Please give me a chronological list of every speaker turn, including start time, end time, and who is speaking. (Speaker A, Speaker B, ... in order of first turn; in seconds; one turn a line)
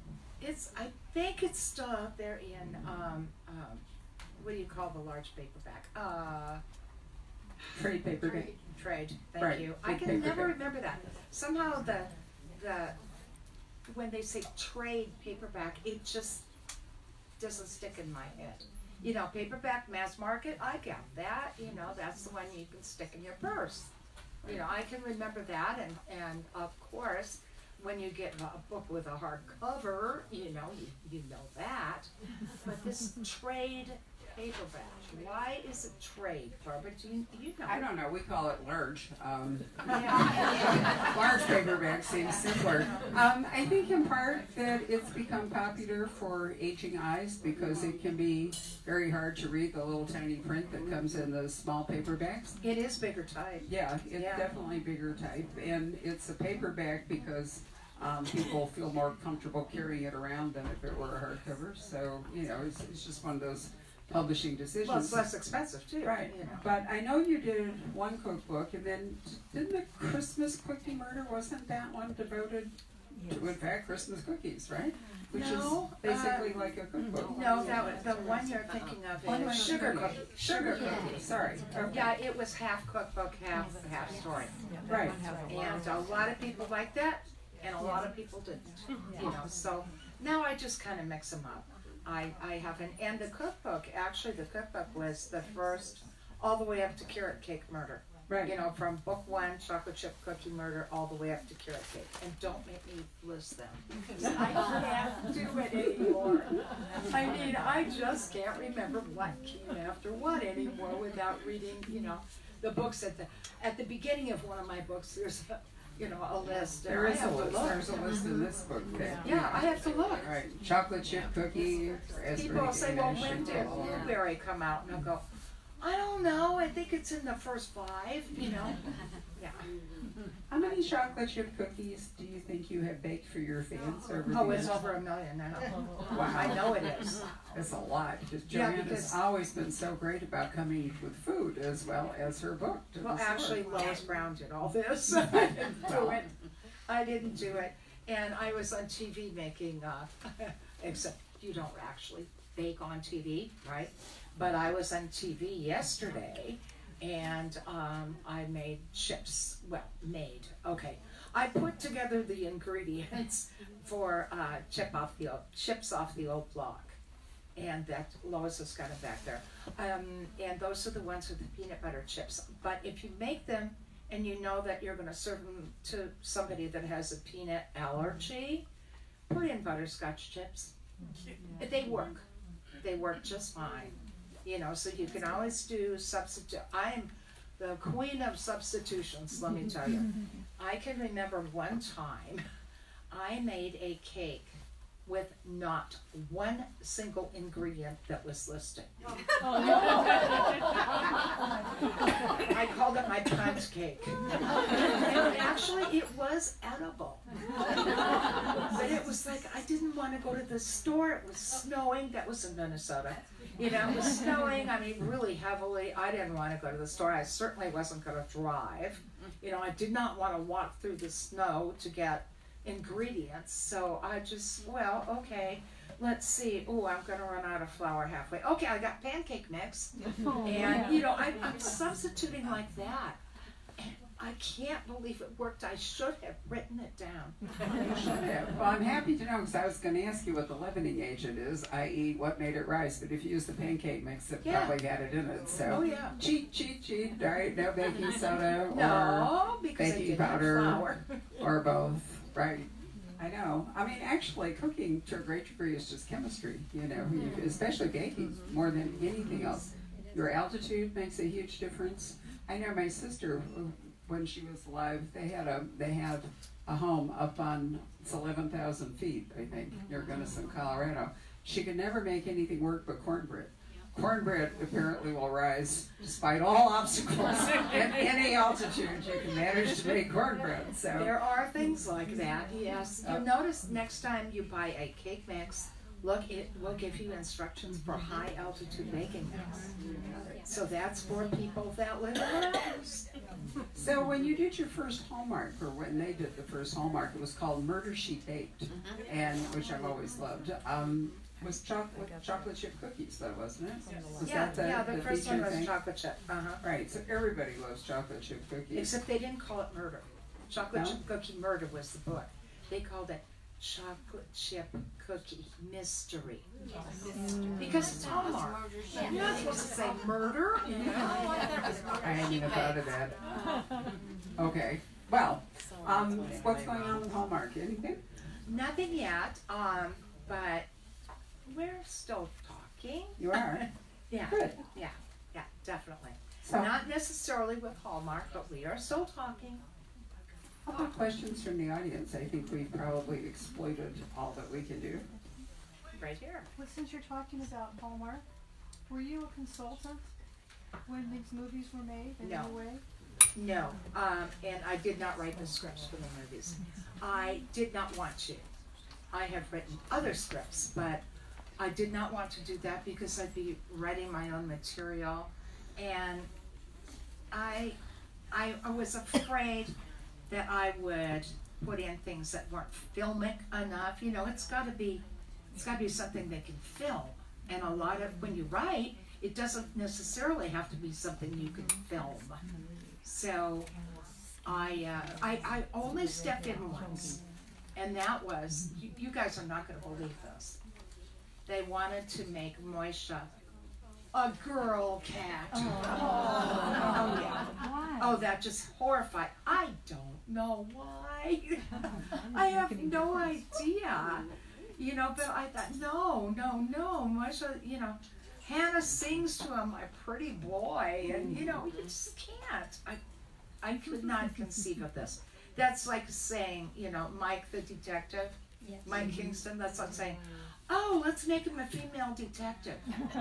Speaker A: 0.4-3.8
Speaker A: 4.4-6.6
Speaker B: 7.6-8.5
Speaker A: 8.2-13.0
Speaker B: 9.4-10.6
Speaker A: 13.9-16.5
Speaker A: 17.4-23.9
Speaker A: 24.4-32.1
Speaker A: 32.6-37.9
Speaker B: 37.7-52.6
Speaker A: 39.9-40.3
Speaker A: 52.6-54.5
Speaker B: 53.6-65.2
Speaker A: 64.8-66.7
Speaker B: 66.0-72.7
Speaker B: 73.3-77.5
Speaker A: 75.3-76.6
Speaker A: 77.3-81.2
Speaker B: 79.2-82.1
Speaker A: 81.9-84.6
Speaker B: 84.9-85.2
Speaker A: 85.5-117.9
Speaker B: 98.3-98.5
Speaker B: 116.9-119.7
Speaker A: 119.2-120.3
Speaker B: 120.2-124.1
Speaker A: 122.3-125.2
Speaker A: 125.8-128.8
Speaker A: 129.4-129.7
Speaker B: 130.5-134.8
Speaker A: 134.3-137.3
Speaker B: 136.1-136.6
Speaker B: 137.5-143.6
Speaker A: 138.5-139.2
Speaker A: 143.0-146.3
Speaker B: 145.7-146.2
Speaker A: 146.9-167.0
Speaker A: 167.6-178.7
Speaker A: 179.3-180.7
Speaker A: 181.6-182.2
Speaker A: 182.8-183.9
Speaker A: 184.4-192.4
Speaker A: 193.1-198.9
Speaker A: 199.4-200.7
Speaker A: 202.1-207.2
Speaker A: 208.6-233.2
Speaker C: 230.2-230.9
Speaker A: 233.8-237.9
Speaker B: 237.8-250.9
Speaker A: 244.4-244.8
Speaker A: 245.6-246.1
Speaker A: 248.7-251.2
Speaker B: 251.4-281.1
Speaker A: 280.9-289.7
Speaker B: 290.1-290.4
Speaker A: 290.4-293.1
Speaker B: 293.8-305.7
Speaker A: 304.2-306.6
Speaker B: 306.6-308.9
Speaker A: 308.7-316.5
Speaker B: 310.7-311.0
Speaker A: 317.6-322.0
Speaker B: 322.0-323.2
Speaker B: 324.4-328.0
Speaker A: 328.5-330.7
Speaker A: 331.5-339.6
Speaker B: 333.2-333.6
Speaker B: 334.3-334.6
Speaker B: 336.4-336.7
Speaker B: 340.7-345.1
Speaker A: 345.9-346.5
Speaker C: 346.6-348.2
Speaker C: 348.9-350.1
Speaker C: 350.9-352.8
Speaker A: 352.2-352.6
Speaker A: 353.4-358.5
Speaker A: 359.1-361.0
Speaker A: 361.6-366.3
Speaker A: 367.3-367.8
Speaker A: 368.3-369.7
Speaker A: 370.3-375.0
Speaker A: 375.6-382.4
Speaker A: 383.0-383.7
Speaker A: 384.4-387.2
Speaker A: 387.8-390.6
Speaker A: 391.5-393.3
Speaker A: 394.1-413.0
Speaker C: 395.6-396.9
Speaker C: 397.5-398.2
Speaker A: 413.6-422.9